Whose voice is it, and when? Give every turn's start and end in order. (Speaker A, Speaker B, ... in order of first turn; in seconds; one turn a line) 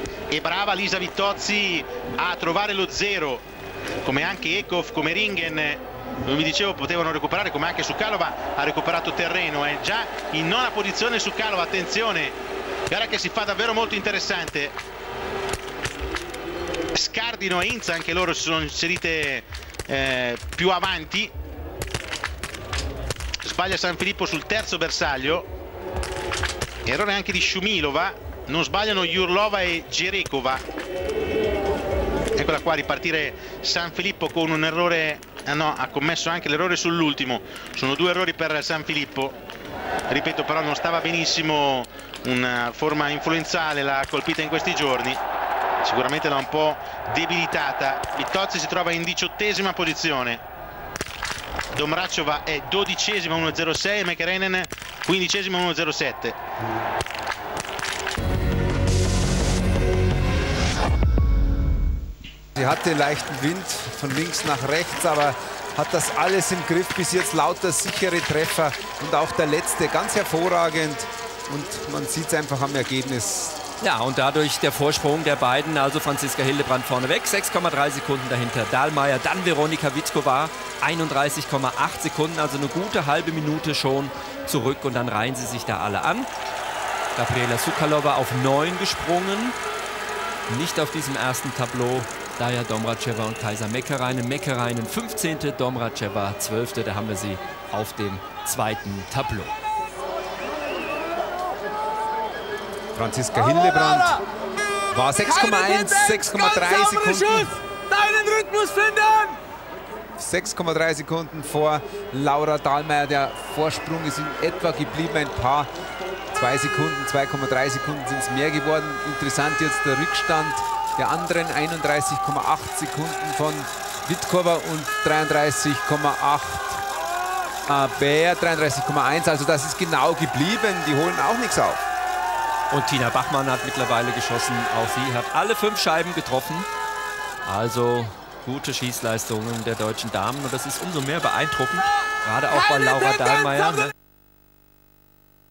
Speaker A: 0.3-3.4
Speaker A: 4.0-12.4
Speaker A: 12.9-14.8
Speaker A: 16.9-21.3
Speaker A: 23.4-25.5
Speaker A: 26.9-30.6
Speaker A: 32.4-39.4
Speaker A: 40.1-45.2
Speaker A: 45.8-50.4
Speaker A: 51.7-56.4
Speaker B: 62.5-73.6
Speaker C: 73.8-86.3
Speaker C: 87.2-89.5
Speaker C: 90.5-99.5
Speaker B: 102.9-104.2
Speaker D: 103.6-104.2
Speaker B: 104.9-107.5
Speaker D: 105.2-109.4
Speaker B: 110.2-115.7
Speaker B: 116.3-126.8
Speaker B: 127.7-131.8
Speaker C: 132.7-136.7
Speaker C: 137.4-143.9